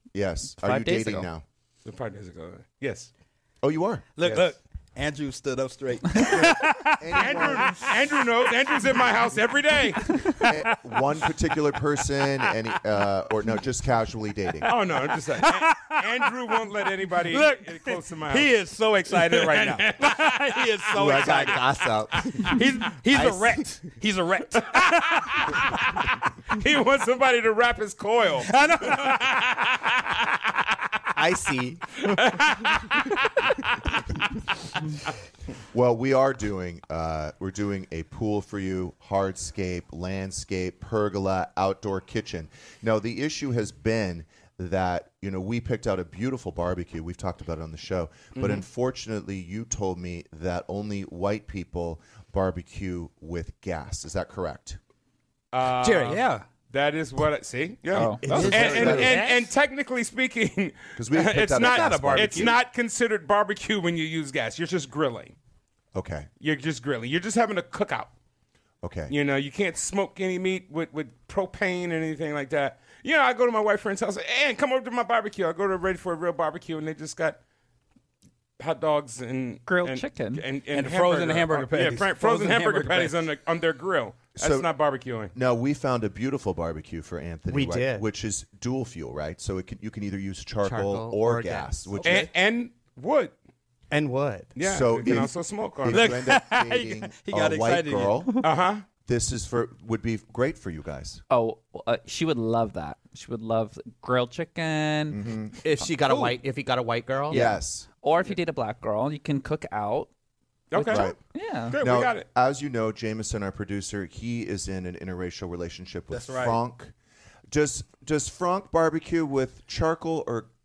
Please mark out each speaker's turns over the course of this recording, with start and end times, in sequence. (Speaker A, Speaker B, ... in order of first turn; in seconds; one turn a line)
Speaker A: 0.1-1.4
Speaker B: 0.6-1.3
Speaker C: 1.8-3.1
Speaker A: 3.6-4.4
Speaker D: 4.2-7.9
Speaker A: 6.2-7.9
Speaker C: 7.1-10.1
Speaker D: 10.0-11.3
Speaker A: 10.4-14.7
Speaker C: 14.7-20.6
Speaker D: 14.7-25.5
Speaker E: 20.9-23.7
Speaker C: 25.3-29.9
Speaker D: 28.4-29.3
Speaker E: 31.1-32.4
Speaker C: 32.2-33.2
Speaker A: 35.7-54.8
Speaker C: 55.5-65.3
Speaker E: 55.8-56.1
Speaker D: 55.8-56.4
Speaker A: 57.9-59.3
Speaker B: 57.9-58.6
Speaker D: 58.3-59.5
Speaker E: 58.6-59.0
Speaker A: 61.0-62.6
Speaker D: 61.7-62.5
Speaker A: 65.9-66.3
Speaker C: 66.4-68.1
Speaker A: 68.8-69.2
Speaker C: 69.1-77.4
Speaker C: 78.6-85.3
Speaker B: 79.7-80.5
Speaker D: 80.7-83.2
Speaker A: 84.4-84.7
Speaker A: 85.3-92.3
Speaker E: 87.5-88.0
Speaker E: 90.6-91.9
Speaker D: 91.9-92.3
Speaker C: 92.0-93.3
Speaker E: 93.9-94.6
Speaker C: 94.5-96.2
Speaker A: 94.6-98.5
Speaker D: 95.9-98.5
Speaker C: 98.4-98.8
Speaker A: 99.0-101.2
Speaker B: 101.3-105.2
Speaker A: 105.1-105.6
Speaker E: 105.6-107.5
Speaker D: 106.0-106.4
Speaker B: 107.3-110.1
Speaker A: 107.3-107.9
Speaker C: 110.7-111.2
Speaker B: 110.7-111.8
Speaker A: 110.9-111.2
Speaker C: 111.7-112.2
Speaker A: 111.7-116.9
Speaker D: 116.1-116.6
Speaker A: 117.5-120.5